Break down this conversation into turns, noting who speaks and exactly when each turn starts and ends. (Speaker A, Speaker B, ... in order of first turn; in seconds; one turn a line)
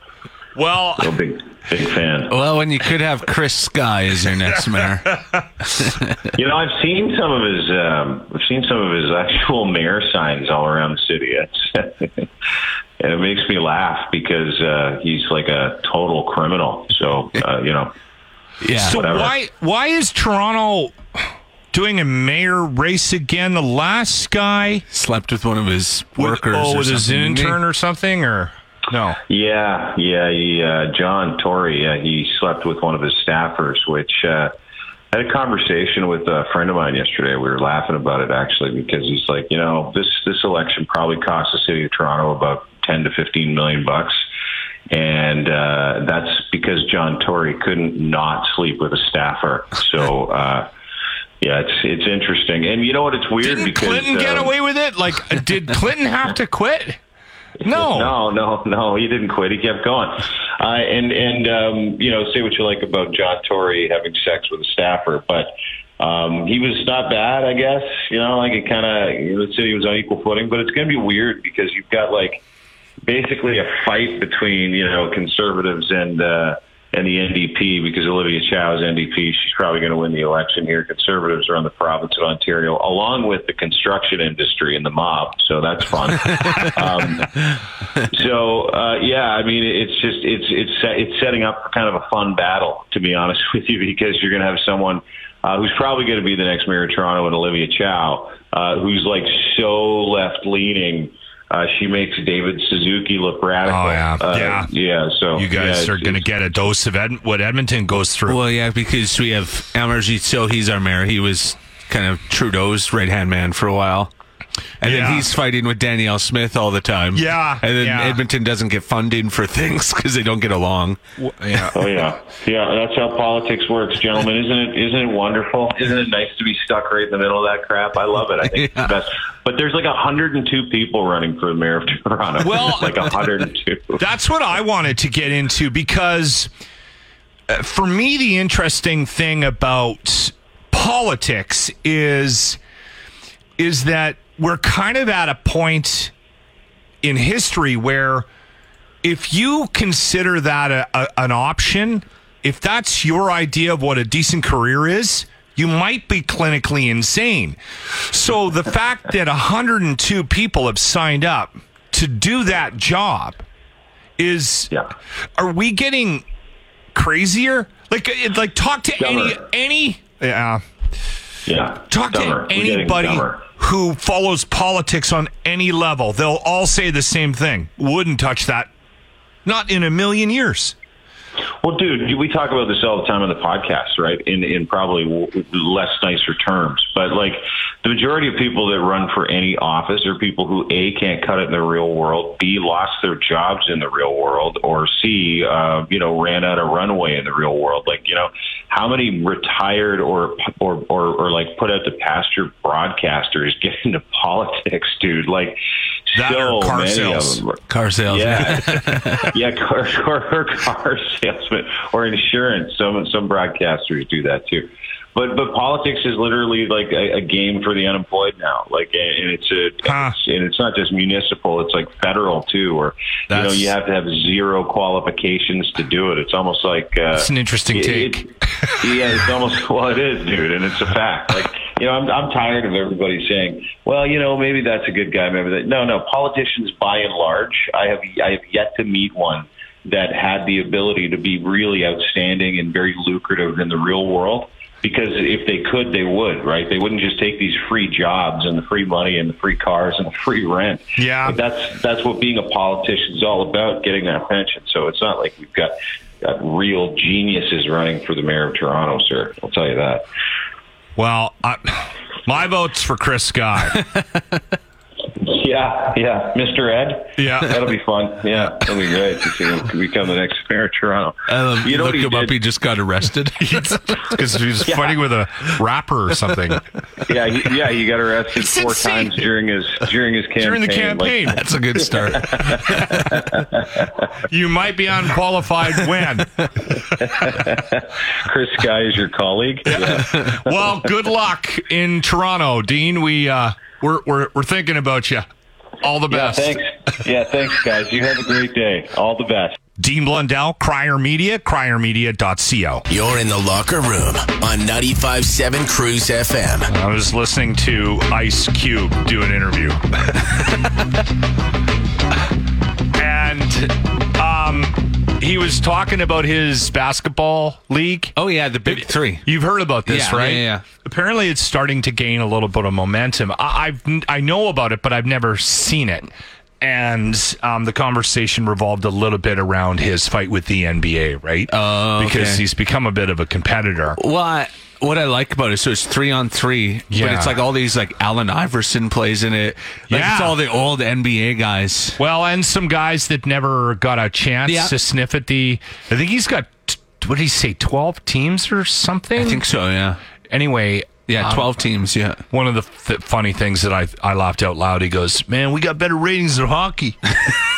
Speaker A: 0.5-1.1
Speaker B: 1.0-2.3
Speaker C: 2.3-5.1
Speaker C: 5.8-6.2
Speaker B: 6.3-12.2
Speaker B: 13.0-17.9
Speaker C: 18.6-19.0
Speaker A: 18.7-20.9
Speaker B: 18.8-19.3
Speaker A: 21.7-24.8
Speaker C: 24.9-27.6
Speaker A: 26.2-29.2
Speaker B: 29.3-34.5
Speaker B: 35.1-44.2
Speaker B: 44.9-50.7
Speaker B: 51.4-54.5
Speaker A: 53.4-57.0
Speaker A: 57.6-58.1
Speaker B: 57.6-72.4
Speaker B: 73.0-87.5
Speaker B: 88.1-106.2
Speaker A: 103.6-104.7
Speaker A: 105.3-108.4
Speaker C: 108.3-114.1
Speaker C: 114.8-121.0
Speaker A: 114.8-115.3
Speaker A: 117.1-118.2
Speaker A: 121.2-121.7
Speaker B: 121.7-134.0
Speaker C: 128.4-128.9
Speaker A: 132.4-133.0
Speaker A: 133.9-136.5
Speaker A: 137.5-142.6
Speaker A: 143.6-146.1
Speaker A: 147.0-148.3
Speaker A: 149.0-163.4
Speaker A: 164.2-164.7
Speaker A: 165.4-166.2
Speaker A: 166.9-170.6
Speaker B: 169.0-169.4
Speaker B: 171.4-173.4
Speaker A: 171.9-178.7
Speaker A: 179.4-180.7
Speaker B: 181.6-205.6
Speaker B: 206.1-260.0
Speaker A: 206.1-207.4
Speaker C: 207.7-209.3
Speaker A: 219.8-220.2
Speaker A: 223.3-223.6
Speaker A: 227.1-228.2
Speaker A: 251.0-251.4
Speaker A: 261.0-263.8
Speaker C: 263.8-264.2
Speaker B: 265.1-272.3
Speaker A: 267.2-267.6
Speaker C: 271.3-273.7
Speaker A: 273.4-276.6
Speaker B: 274.6-275.0
Speaker B: 277.1-281.3
Speaker A: 278.3-279.2
Speaker A: 280.4-281.4
Speaker C: 281.3-283.4
Speaker B: 282.0-283.9
Speaker A: 284.2-286.5
Speaker B: 287.0-290.6
Speaker A: 289.7-295.2
Speaker A: 295.8-296.6
Speaker B: 296.1-299.6
Speaker A: 299.8-302.8
Speaker D: 302.9-306.7
Speaker A: 306.7-309.8
Speaker A: 312.9-334.0
Speaker C: 318.1-319.3
Speaker C: 319.9-320.6
Speaker C: 331.5-332.4
Speaker C: 334.0-342.0
Speaker A: 336.9-337.4
Speaker A: 339.9-340.4
Speaker A: 342.0-349.4
Speaker C: 344.4-344.7
Speaker C: 349.2-350.0
Speaker A: 350.3-351.6
Speaker C: 351.1-352.2
Speaker A: 352.3-357.0